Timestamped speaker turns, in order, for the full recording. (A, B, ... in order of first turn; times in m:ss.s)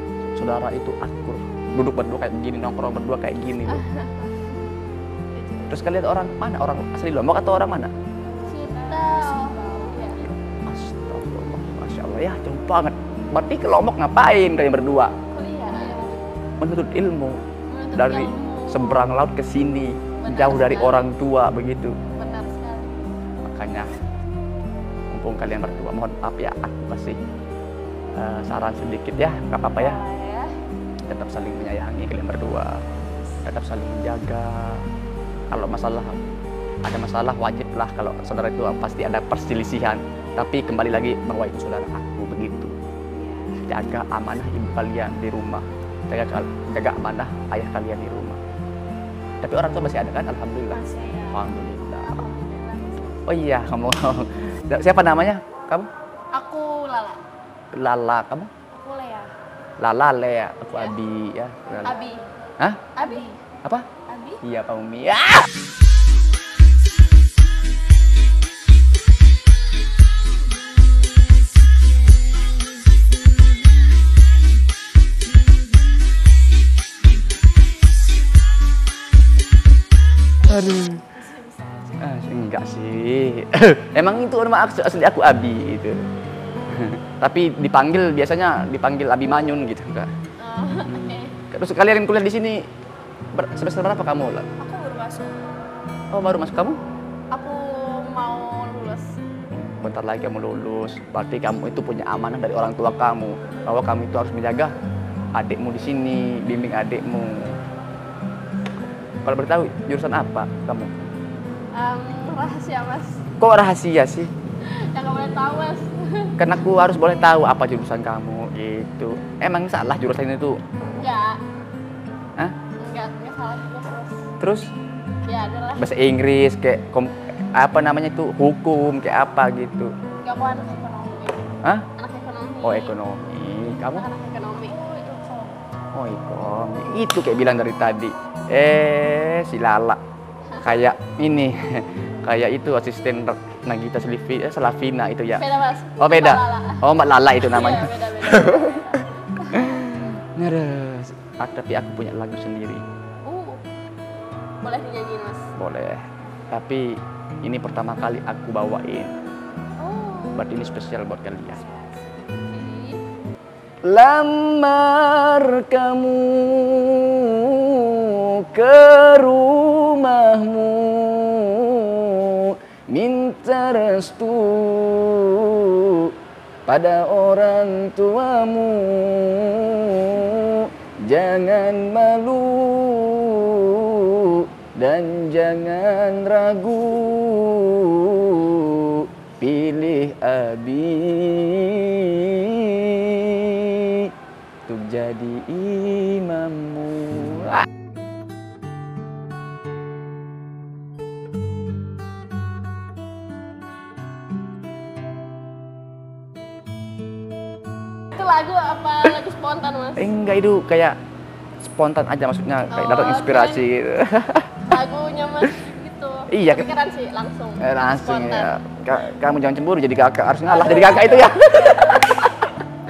0:00.4-0:03.8 A
0:03.7-0:04.3 B
0:05.3-0:06.0 C
0:05.7-0:07.9 A
0:08.2-0:10.1 C
0:08.5-0:10.2 B
0:10.2-0:15.1 A
0:15.3-0:16.2 B
0:16.6-0:17.4 A
0:17.7-0:19.0 B
0:18.0-0:22.0 A
0:20.2-0:21.1 B
0:22.2-0:23.0 B
0:23.4-0:23.9 A
0:25.1-0:27.2 A
0:28.2-0:30.0 A
0:29.8-0:30.6 B
0:31.1-0:32.8 A
0:33.0-0:33.4 C
0:33.4-0:34.8 A
0:35.5-0:36.2 A
0:36.8-0:42.7 A
0:43.1-0:43.6 C
0:43.6-0:48.4 A
0:49.4-0:52.2 A
0:50.7-0:51.5 C
0:52.1-0:53.2 C
0:52.2-0:52.4 B
0:53.3-0:55.9 A
0:56.3-0:57.2 B
0:57.7-0:58.5 A
0:58.7-0:59.3 C
0:59.8-1:02.0 A
1:01.8-1:02.2 B
1:01.9-1:02.2 C
1:03.0-1:03.3 B
1:03.0-1:03.4 C
1:04.1-1:04.4 C
1:04.4-1:05.5 A
1:20.4-1:22.2 C
1:20.5-1:21.0 A
1:22.0-1:26.0 A
1:26.7-1:30.1 A
1:30.4-1:31.4 B
1:31.5-1:32.6 A
1:33.3-1:34.5 A
1:34.6-1:35.5 C
1:36.1-1:36.8 A
1:37.3-1:39.2 B
1:39.5-1:44.7 A
1:45.4-1:47.5 A
1:49.2-1:50.9 A
1:51.7-1:53.2 B
1:53.4-1:54.3 A
1:54.6-1:56.3 B
1:56.4-2:00.6 A
2:01.0-2:01.4 B
2:02.8-2:04.2 B
2:04.4-2:04.7 A
2:05.3-2:05.9 B
2:05.8-2:09.9 A
2:10.2-2:13.0 B
2:12.6-2:14.1 A
2:13.9-2:14.8 B
2:14.6-2:15.6 C
2:15.9-2:20.0 A
2:20.5-2:20.9 B
2:20.6-2:25.4 A
2:25.4-2:29.8 B
2:26.0-2:28.8 A
2:29.5-2:32.8 A
2:33.2-2:33.6 B
2:34.6-2:35.5 B
2:35.6-2:39.1 A
2:39.8-2:40.5 B
2:40.4-2:41.6 A
2:41.5-2:42.4 C
2:42.5-2:43.1 B
2:43.9-2:56.1 A
2:56.7-3:14.1 A
3:14.7-3:17.7 A
3:28.1-3:30.1 B
3:30.0-3:31.0 A
3:31.6-3:34.6 A
3:32.7-3:33.7 B
3:34.6-3:38.5 B
3:36.3-3:36.7 A
3:37.6-3:42.6 A
3:40.5-3:42.2 B